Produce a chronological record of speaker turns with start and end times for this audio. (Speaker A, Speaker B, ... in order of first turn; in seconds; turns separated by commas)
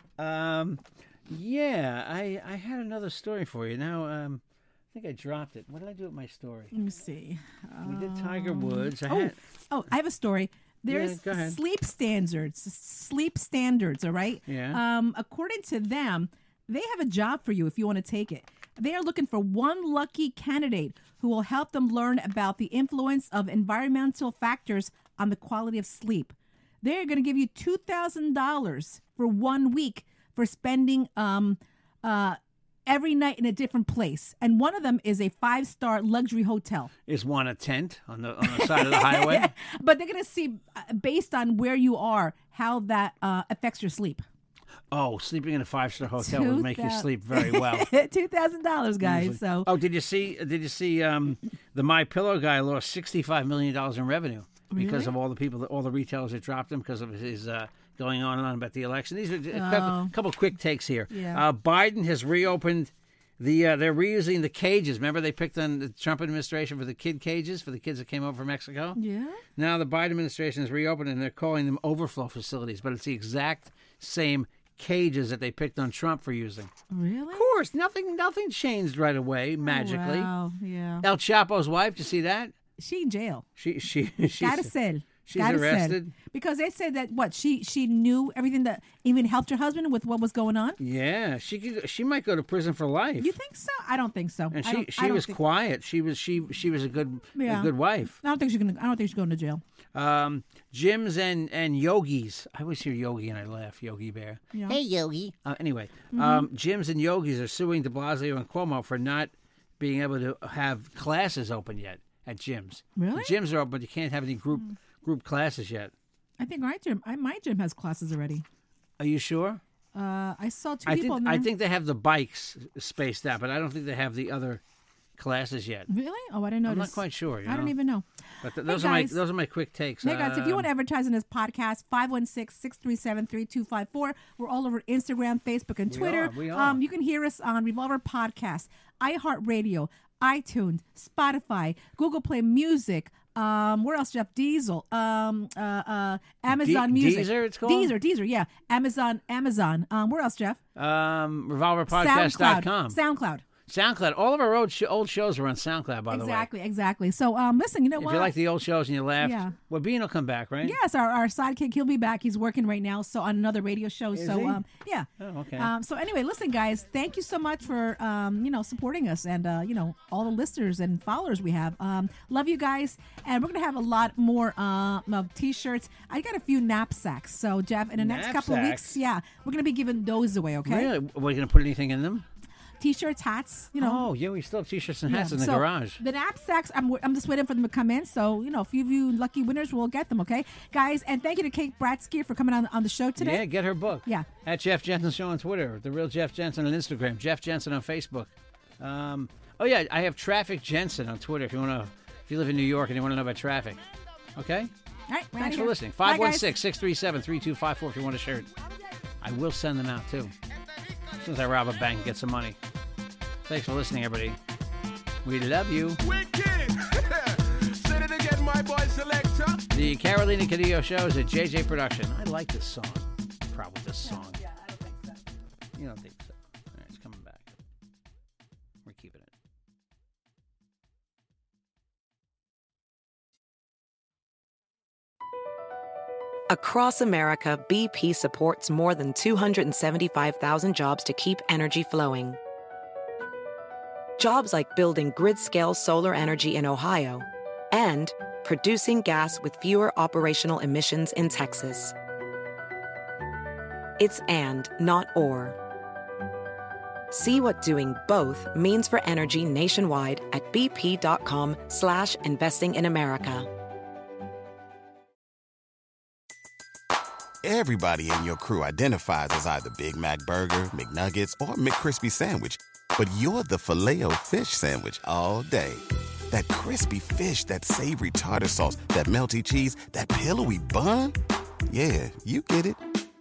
Speaker A: 0.2-4.4, Speaker A: 4.9-6.7, Speaker B: 6.7-36.9, Speaker A: 7.8-9.4, Speaker A: 10.9-11.6, Speaker A: 14.5-14.8, Speaker A: 37.1-39.5, Speaker B: 38.4-44.2, Speaker A: 44.9-47.9, Speaker B: 46.2-49.7, Speaker A: 49.0-69.0, Speaker B: 54.7-55.1, Speaker B: 59.5-60.1, Speaker B: 61.1-61.4, Speaker B: 69.0-69.4, Speaker A: 69.6-76.7, Speaker B: 76.9-77.6, Speaker A: 77.3-80.3, Speaker B: 79.7-81.0, Speaker A: 81.0-82.5, Speaker B: 82.8-83.5, Speaker A: 83.6-84.7, Speaker B: 84.4-90.8, Speaker A: 85.2-86.1, Speaker A: 90.8-93.3, Speaker B: 93.2-95.4, Speaker A: 94.5-98.2, Speaker B: 97.4-99.6, Speaker A: 100.0-115.9, Speaker B: 104.5-104.8, Speaker B: 106.1-106.5, Speaker B: 113.0-113.3, Speaker B: 116.4-118.4, Speaker A: 119.0-119.6, Speaker B: 119.9-121.5, Speaker A: 120.9-124.6, Speaker A: 125.2-125.9, Speaker B: 125.9-128.1, Speaker A: 126.7-127.8, Speaker A: 128.4-130.7, Speaker B: 128.6-129.2, Speaker B: 130.0-150.6, Speaker A: 135.9-136.8, Speaker A: 146.5-147.9, Speaker A: 150.8-153.0, Speaker B: 151.9-153.4, Speaker A: 153.7-156.5, Speaker B: 156.1-158.3, Speaker A: 158.0-160.8, Speaker B: 159.2-159.6, Speaker B: 160.6-165.1, Speaker A: 164.2-164.6, Speaker A: 165.2-165.7, Speaker B: 165.6-180.9, Speaker A: 178.0-179.0, Speaker A: 180.7-182.2, Speaker B: 182.8-184.1, Speaker A: 183.8-186.0, Speaker B: 185.1-193.4, Speaker A: 193.2-203.8, Speaker A: 204.3-204.7, Speaker B: 205.1-206.5, Speaker A: 205.4-208.5, Speaker A: 209.2-210.3, Speaker A: 211.2-212.6, Speaker A: 213.5-214.4, Speaker A: 215.2-216.0, Speaker C: 216.0-219.6, Speaker A: 219.7-224.4, Speaker A: 225.8-227.5, Speaker A: 228.8-229.3, Speaker D: 236.5-242.4, Speaker D: 244.2-251.9, Speaker D: 254.0-255.6, Speaker D: 257.1-263.5, Speaker E: 267.4-281.2, Speaker E: 281.7-282.8